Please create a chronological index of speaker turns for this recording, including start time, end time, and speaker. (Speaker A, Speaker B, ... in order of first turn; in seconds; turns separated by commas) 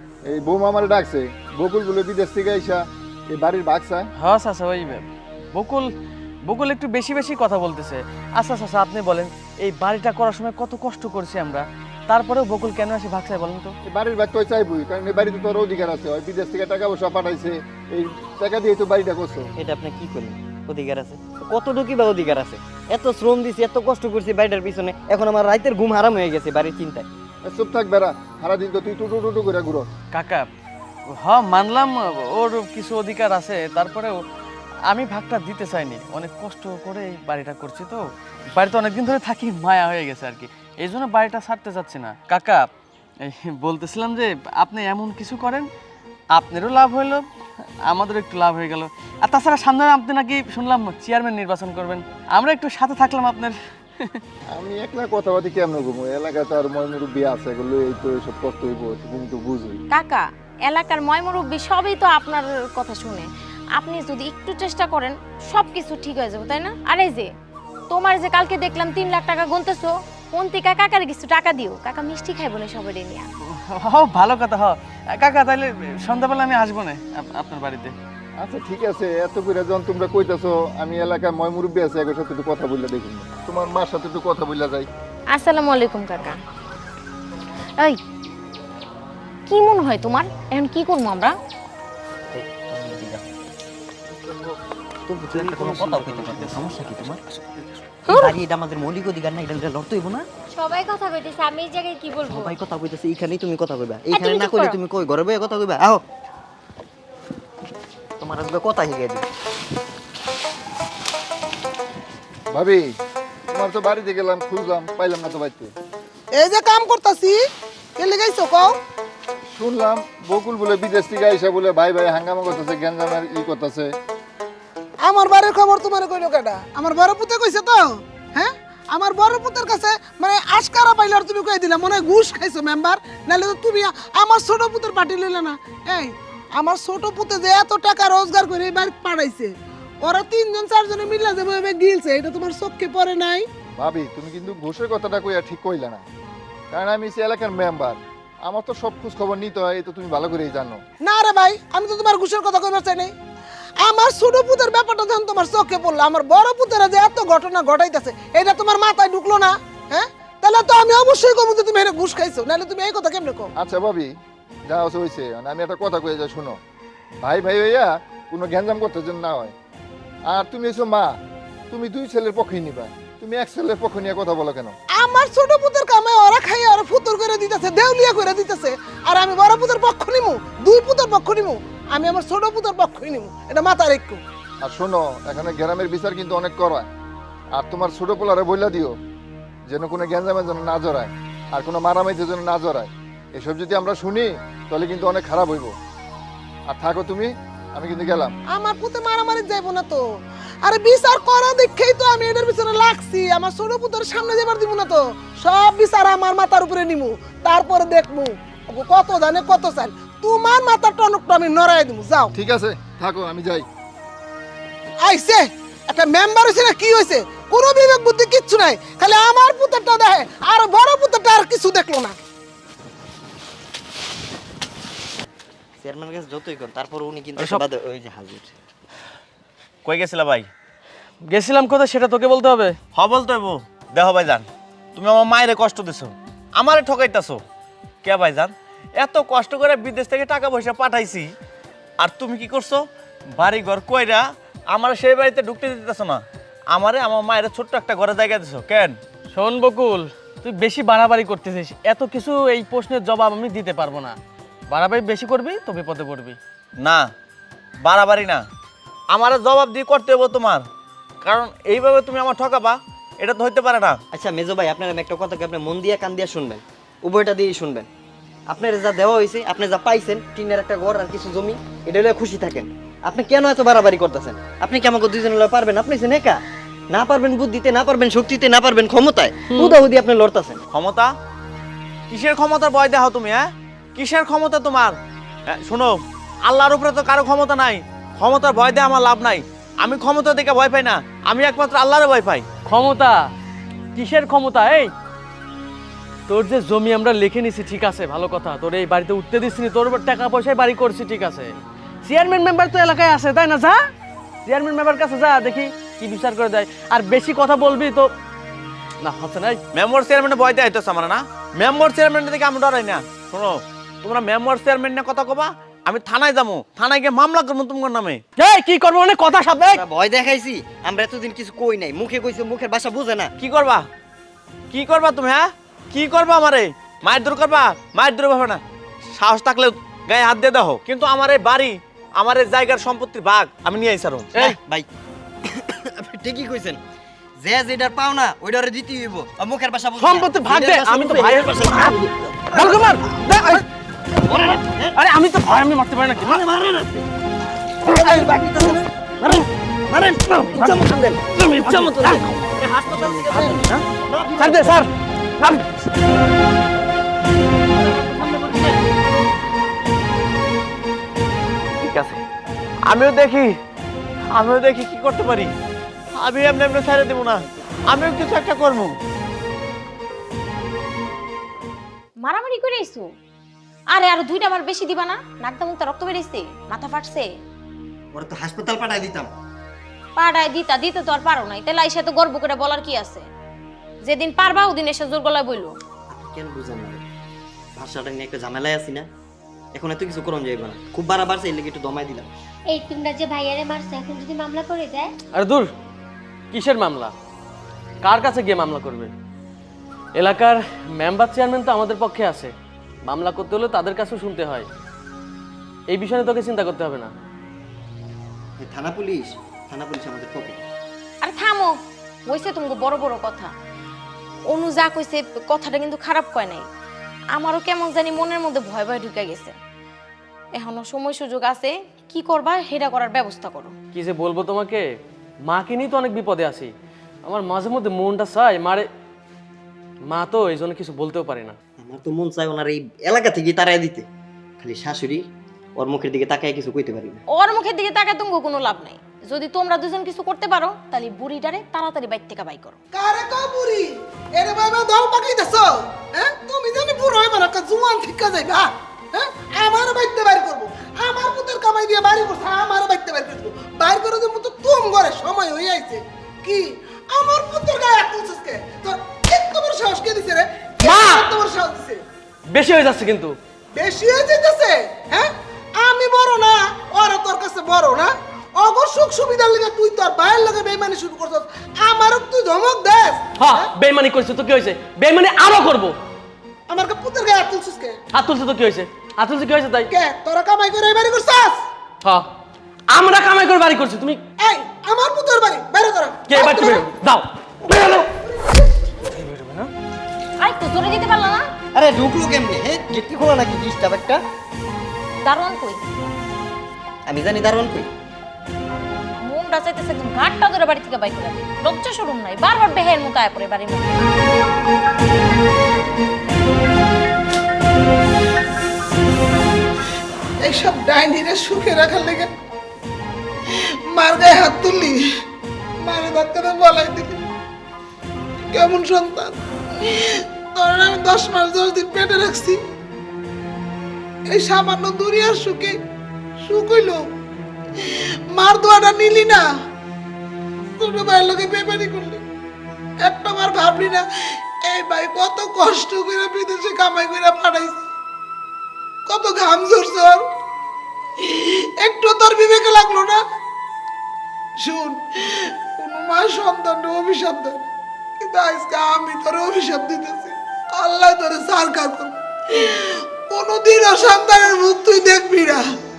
Speaker A: 0.3-4.1, Speaker B: 4.2-5.9, Speaker B: 6.5-13.7, Speaker A: 13.8-19.5, Speaker C: 19.6-27.1, Speaker A: 27.4-29.9, Speaker B: 30.1-30.5, Speaker B: 31.1-34.2, Speaker B: 34.9-42.7, Speaker B: 43.2-45.7, Speaker B: 46.3-47.2, Speaker B: 47.8-54.2, Speaker A: 54.5-59.8, Speaker D: 59.9-67.3, Speaker D: 67.9-73.3, Speaker B: 73.5-77.9, Speaker A: 78.4-84.9, Speaker D: 85.3-86.4, Speaker D: 89.5-91.3, Speaker C: 92.3-93.3, Speaker C: 95.1-97.2, Speaker B: 95.3-97.2, Speaker C: 98.0-100.2, Speaker D: 98.1-98.4, Speaker E: 100.5-102.6, Speaker C: 102.3-106.0, Speaker D: 104.1-104.8, Speaker C: 108.2-109.2, Speaker A: 112.5-113.0, Speaker A: 113.5-115.7, Speaker F: 116.3-117.4, Speaker F: 118.0-118.8, Speaker A: 119.5-123.9, Speaker F: 125.0-143.5, Speaker A: 143.8-146.0, Speaker A: 146.7-150.8, Speaker F: 151.0-153.1, Speaker F: 153.8-163.5, Speaker A: 163.6-164.1, Speaker A: 164.7-166.6, Speaker A: 167.2-169.5, Speaker A: 170.3-171.2, Speaker A: 171.7-174.8, Speaker F: 175.0-184.2, Speaker A: 184.6-186.9, Speaker A: 187.5-188.9, Speaker A: 189.7-195.7, Speaker A: 196.7-198.3, Speaker F: 198.5-200.1, Speaker F: 200.6-212.3, Speaker A: 212.3-213.7, Speaker F: 215.0-222.1, Speaker C: 225.8-228.5, Speaker G: 229.8-230.5, Speaker B: 231.3-232.8, Speaker G: 232.9-237.4, Speaker G: 238.0-241.3, Speaker G: 242.0-242.8, Speaker G: 243.4-248.9, Speaker B: 249.3-254.2, Speaker B: 254.7-256.4, Speaker G: 256.8-257.1, Speaker G: 257.8-258.4, Speaker G: 259.1-260.6, Speaker G: 261.2-264.0, Speaker C: 264.1-267.9, Speaker C: 268.5-276.4, Speaker C: 276.9-280.6, Speaker G: 280.7-281.1, Speaker G: 282.1-285.0, Speaker G: 285.5-292.5, Speaker B: 292.6-293.2, Speaker B: 293.9-294.9, Speaker B: 296.3-303.8, Speaker B: 304.4-308.1, Speaker B: 309.0-309.6, Speaker G: 309.7-318.2, Speaker B: 318.4-319.8, Speaker C: 319.7-323.3, Speaker G: 323.4-323.8, Speaker G: 324.7-328.6, Speaker G: 329.1-334.4, Speaker C: 334.4-334.9, Speaker C: 335.4-336.8, Speaker C: 337.4-343.6, Speaker B: 340.0-342.0, Speaker B: 342.5-343.6, Speaker C: 344.1-344.9, Speaker B: 344.3-346.4, Speaker C: 346.2-347.1, Speaker C: 347.8-354.8, Speaker B: 347.9-348.8, Speaker B: 350.4-350.8, Speaker B: 351.3-352.2, Speaker B: 353.3-353.6, Speaker B: 354.4-354.9, Speaker B: 355.4-355.6, Speaker C: 357.7-358.8, Speaker G: 361.8-362.2, Speaker G: 362.9-363.5, Speaker G: 364.3-365.5, Speaker G: 366.1-368.9, Speaker D: 372.2-373.1, Speaker D: 373.9-377.3, Speaker C: 378.1-379.3, Speaker D: 380.2-383.3, Speaker D: 384.0-385.7, Speaker C: 386.1-387.0, Speaker C: 387.8-389.1, Speaker C: 389.7-392.3, Speaker E: 392.7-395.1, Speaker B: 395.3-395.7, Speaker B: 396.5-397.1, Speaker B: 398.0-399.1, Speaker B: 400.1-402.5, Speaker B: 403.1-404.7, Speaker B: 405.9-407.1, Speaker C: 408.6-410.6, Speaker D: 411.2-411.7, Speaker D: 412.3-413.5, Speaker D: 414.5-416.7, Speaker D: 417.3-419.6, Speaker D: 420.5-423.7, Speaker B: 423.9-424.8, Speaker B: 425.5-426.7, Speaker B: 427.2-428.9, Speaker B: 430.1-431.6, Speaker C: 431.8-434.1, Speaker C: 434.6-435.2, Speaker C: 435.8-437.2, Speaker D: 437.3-442.8, Speaker F: 442.9-462.0, Speaker B: 460.8-461.3, Speaker B: 462.5-463.3, Speaker F: 463.8-473.7, Speaker B: 473.4-475.9, Speaker F: 476.7-478.0, Speaker B: 478.1-479.9, Speaker F: 479.9-481.7, Speaker B: 482.9-484.2, Speaker F: 484.4-486.9, Speaker B: 486.3-488.1, Speaker F: 487.6-488.8, Speaker B: 489.0-489.7, Speaker D: 490.4-491.5, Speaker C: 491.7-494.2, Speaker D: 495.2-495.8, Speaker C: 497.1-497.9, Speaker D: 499.2-504.1, Speaker F: 510.4-512.3, Speaker F: 513.5-515.0, Speaker F: 515.8-517.2, Speaker F: 518.5-522.6, Speaker F: 524.3-525.8, Speaker F: 526.4-527.0, Speaker F: 527.8-529.4, Speaker F: 530.8-532.2, Speaker F: 533.0-537.8, Speaker F: 539.0-540.3, Speaker F: 541.2-543.2, Speaker F: 544.6-547.7, Speaker F: 548.2-555.6